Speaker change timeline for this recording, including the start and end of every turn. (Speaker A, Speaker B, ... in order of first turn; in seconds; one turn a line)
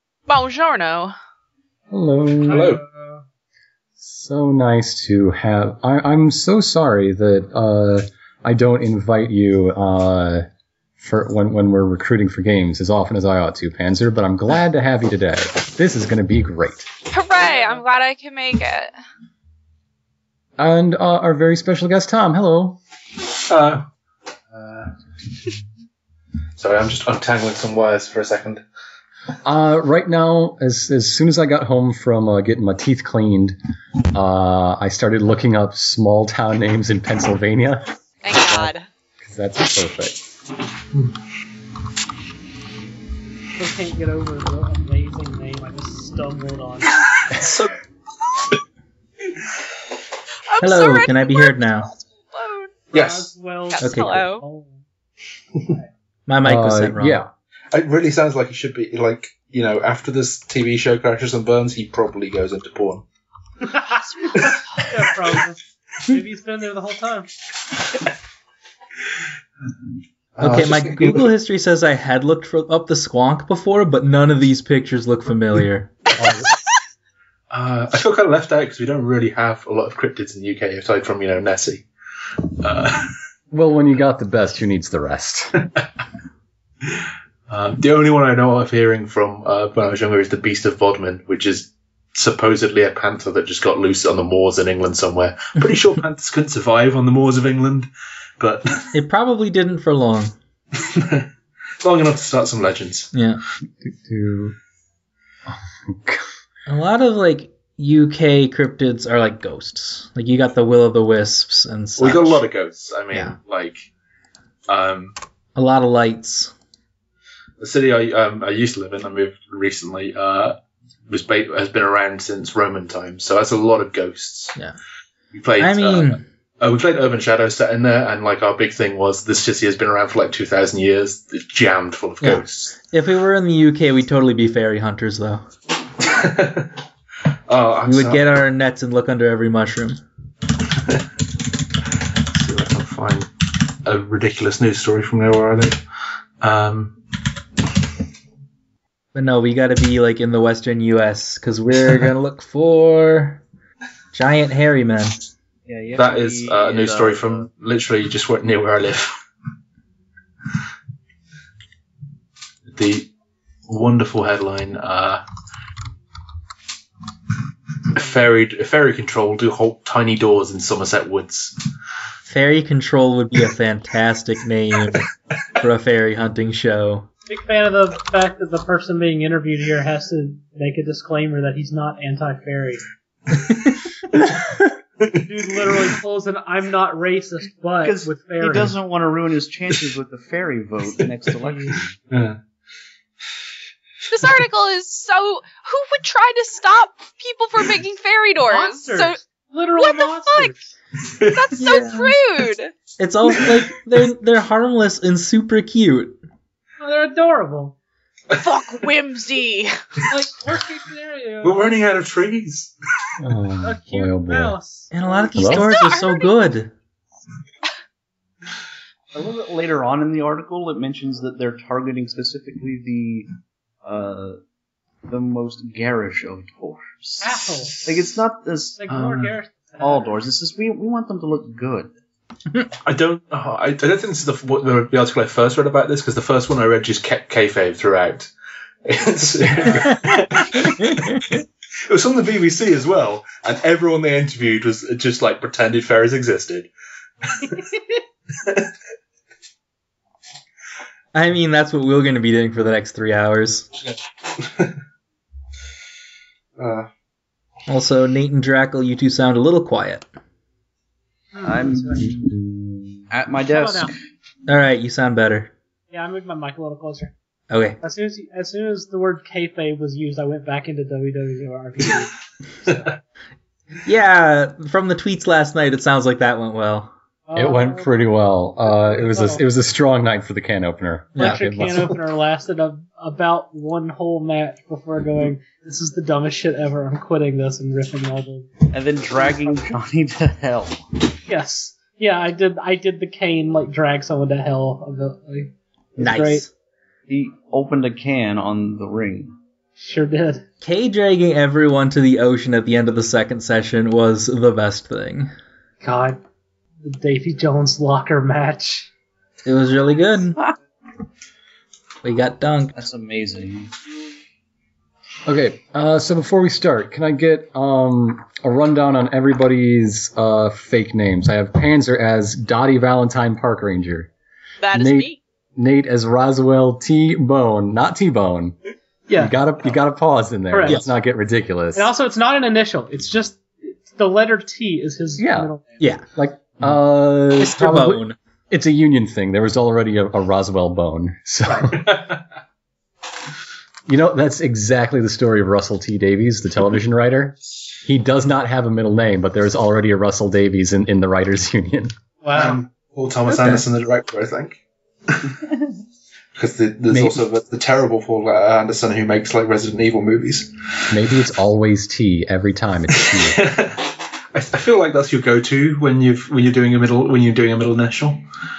Speaker A: 0.3-1.1
Speaker B: 1.9-2.7
Speaker C: 2.5-3.2
Speaker D: 2.5-2.8
Speaker B: 4.0-10.5
Speaker B: 11.0-16.9
Speaker A: 17.1-18.9
Speaker C: 17.4-17.8
Speaker B: 20.6-22.8
Speaker D: 23.4-23.9
Speaker D: 24.5-24.9
Speaker D: 26.6-28.6
Speaker B: 29.4-33.5
Speaker B: 34.1-40.2
Speaker A: 38.2-38.9
Speaker C: 43.5-46.9
Speaker D: 47.1-47.7
Speaker A: 50.5-52.8
Speaker E: 50.6-51.9
Speaker D: 52.9-53.3
Speaker C: 52.9-54.8
Speaker A: 53.7-54.4
Speaker E: 53.8-54.2
Speaker E: 56.3-57.2
Speaker B: 56.4-57.3
Speaker D: 57.7-63.0
Speaker C: 63.8-67.3
Speaker D: 70.4-71.3
Speaker E: 70.4-76.0
Speaker B: 76.2-76.5
Speaker D: 77.5-81.9
Speaker D: 82.6-83.1
Speaker B: 83.5-85.6
Speaker D: 86.8-97.9
Speaker D: 98.4-98.9
Speaker E: 98.9-100.3
Speaker D: 100.7-101.3
Speaker D: 101.8-103.1
Speaker E: 103.1-103.4
Speaker B: 103.8-104.5
Speaker B: 105.5-106.3
Speaker E: 106.7-112.4
Speaker D: 112.0-113.9
Speaker D: 114.7-115.1
Speaker E: 115.5-116.5
Speaker D: 117.6-120.6
Speaker D: 121.1-124.5
Speaker D: 125.3-132.8
Speaker E: 125.6-126.2
Speaker E: 132.2-135.4
Speaker D: 136.0-136.7
Speaker D: 137.5-138.2
Speaker E: 137.9-140.0
Speaker D: 142.3-143.3
Speaker D: 143.8-145.8
Speaker D: 146.4-147.0
Speaker E: 149.1-153.4
Speaker E: 154.1-155.2
Speaker F: 155.7-157.5
Speaker D: 155.9-159.1
Speaker D: 162.7-163.1
Speaker D: 163.7-165.2
Speaker D: 167.9-171.6
Speaker E: 172.2-177.1
Speaker C: 177.3-182.8
Speaker C: 185.1-188.7
Speaker F: 187.8-191.9
Speaker C: 191.4-191.8
Speaker D: 192.1-192.4
Speaker A: 194.1-199.2
Speaker C: 198.5-200.7
Speaker A: 199.8-200.5
Speaker D: 201.1-201.5
Speaker A: 201.2-202.7
Speaker E: 201.6-202.1
Speaker E: 203.0-206.2
Speaker C: 206.8-207.7
Speaker A: 208.3-209.8
Speaker C: 210.1-211.8
Speaker D: 211.4-212.7
Speaker B: 213.2-214.6
Speaker C: 213.6-214.9
Speaker E: 214.9-216.7
Speaker B: 215.3-215.7
Speaker A: 215.5-216.3
Speaker F: 219.1-223.3
Speaker F: 223.8-224.4
Speaker F: 225.1-228.8
Speaker C: 227.2-227.8
Speaker C: 228.8-230.2
Speaker D: 228.9-229.3
Speaker F: 229.8-231.9
Speaker D: 232.8-238.3
Speaker D: 238.8-246.7
Speaker E: 240.1-241.0
Speaker D: 247.2-247.8
Speaker D: 248.4-248.7
Speaker E: 251.1-253.7
Speaker D: 253.8-254.8
Speaker D: 256.6-256.9
Speaker E: 257.7-260.0
Speaker C: 261.3-262.2
Speaker F: 261.4-262.1
Speaker B: 262.0-263.0
Speaker F: 263.1-263.9
Speaker C: 263.5-263.9
Speaker E: 264.5-265.5
Speaker C: 265.9-267.1
Speaker E: 267.5-267.8
Speaker C: 267.8-272.9
Speaker D: 272.7-272.9
Speaker E: 273.8-276.9
Speaker C: 277.3-277.9
Speaker B: 277.3-281.9
Speaker C: 278.7-279.4
Speaker C: 281.2-288.5
Speaker F: 288.7-290.8
Speaker C: 291.3-296.5
Speaker E: 296.0-296.5
Speaker F: 297.1-299.3
Speaker C: 299.8-300.4
Speaker E: 300.6-305.3
Speaker C: 305.8-306.2
Speaker C: 306.8-308.9
Speaker E: 309.4-310.4
Speaker E: 312.0-312.7
Speaker F: 312.7-313.7
Speaker B: 315.2-324.1
Speaker A: 324.6-325.2
Speaker B: 324.7-328.6
Speaker C: 329.1-329.3
Speaker B: 329.2-331.9
Speaker C: 330.5-330.8
Speaker C: 331.7-335.8
Speaker B: 335.2-335.5
Speaker B: 336.1-342.0
Speaker E: 337.4-338.1
Speaker D: 341.7-342.2
Speaker B: 343.9-351.9
Speaker C: 352.2-352.6
Speaker D: 352.3-355.4
Speaker E: 353.3-353.6
Speaker D: 356.3-360.5
Speaker B: 356.9-357.2
Speaker B: 360.9-363.4
Speaker D: 362.9-368.2